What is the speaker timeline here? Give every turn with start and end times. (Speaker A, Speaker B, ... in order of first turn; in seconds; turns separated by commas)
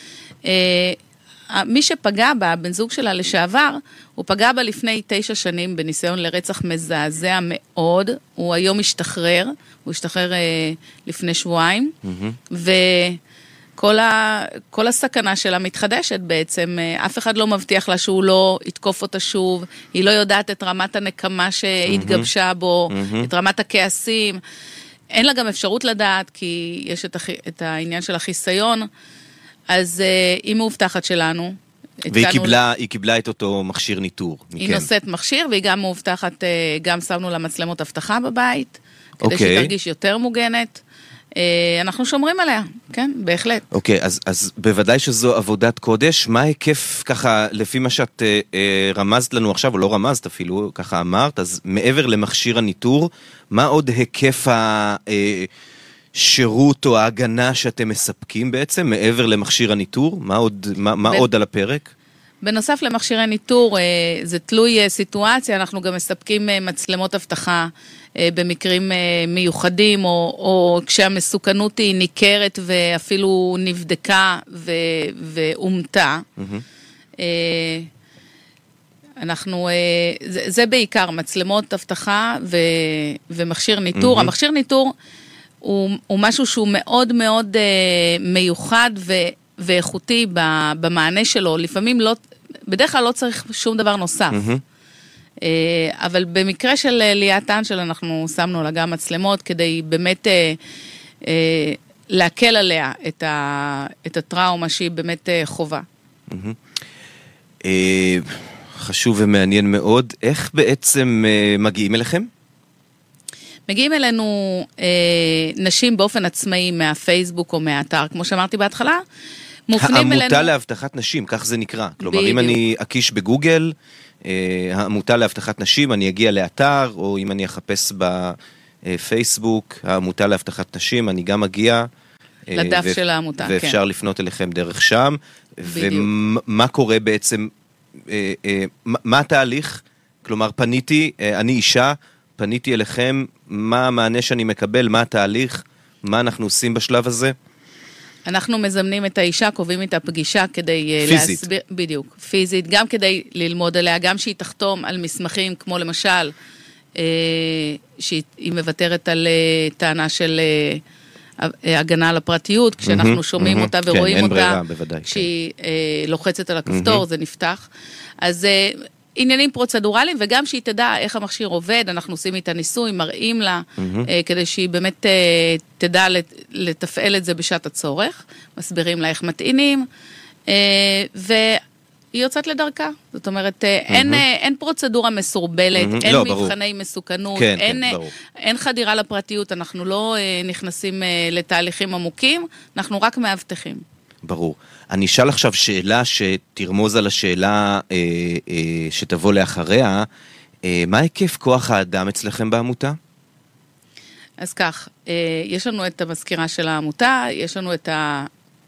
Speaker A: 0.4-1.0, Speaker A: 1.5-11.9, Speaker B: 12.0-12.4, Speaker A: 12.5-13.2, Speaker A: 13.8-24.4, Speaker B: 21.9-22.3, Speaker B: 22.9-23.3, Speaker A: 25.1-28.9, Speaker A: 29.7-32.6, Speaker B: 32.1-34.9, Speaker A: 34.6-40.8, Speaker B: 39.2-39.7, Speaker A: 41.4-43.6, Speaker B: 43.7-55.5, Speaker B: 56.1-61.9, Speaker A: 62.4-76.2, Speaker B: 76.4-76.6, Speaker A: 77.2-77.9, Speaker A: 79.2-84.9, Speaker B: 84.0-84.3, Speaker A: 85.6-94.4, Speaker B: 94.3-94.6, Speaker A: 95.4-100.6, Speaker A: 101.2-105.8, Speaker B: 106.3-106.6, Speaker B: 107.6-112.3, Speaker A: 113.7-119.0, Speaker A: 119.7-120.5, Speaker B: 119.8-123.7, Speaker A: 122.0-122.6, Speaker B: 124.2-131.9, Speaker B: 132.5-137.5, Speaker A: 132.6-133.8, Speaker A: 135.7-136.1, Speaker B: 138.1-147.3, Speaker A: 148.3-156.3, Speaker B: 151.0-151.4, Speaker A: 156.9-160.8, Speaker A: 161.4-167.7, Speaker B: 162.8-165.3, Speaker B: 166.7-167.0, Speaker A: 168.2-179.9, Speaker B: 173.8-174.1, Speaker A: 180.5-181.6, Speaker A: 182.1-193.8, Speaker B: 183.9-184.2, Speaker B: 185.8-186.5, Speaker B: 187.4-188.1, Speaker B: 194.2-200.1, Speaker B: 200.6-203.0, Speaker A: 204.4-208.3